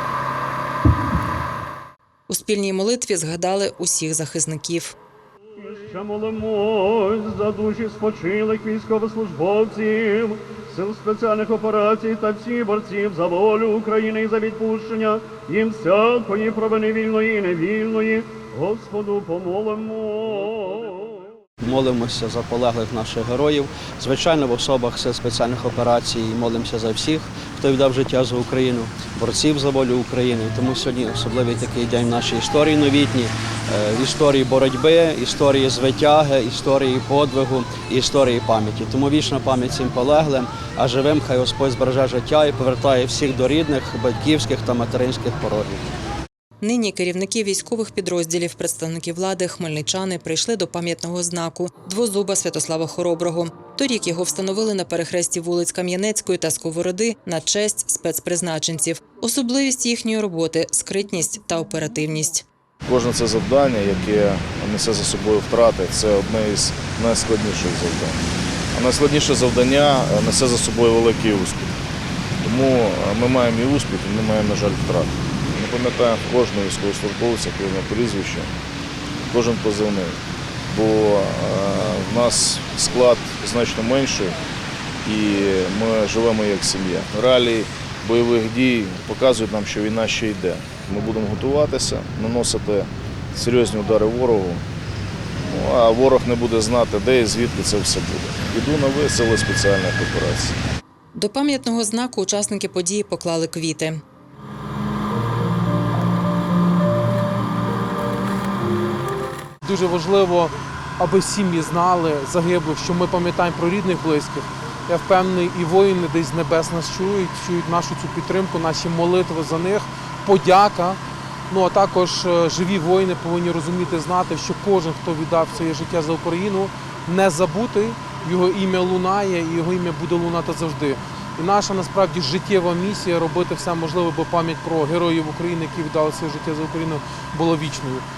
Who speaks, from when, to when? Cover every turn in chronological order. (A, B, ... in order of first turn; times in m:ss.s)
0:02.3-0:05.0 A
0:05.6-0:21.3 B
0:21.6-0:45.8 C
0:46.6-1:02.4 A
1:02.8-1:11.7 D
1:12.4-1:18.5 D
1:19.3-1:24.4 D
1:25.0-1:34.6 D
1:35.4-1:40.6 D
1:41.1-1:44.0 A
1:49.6-2:18.0 E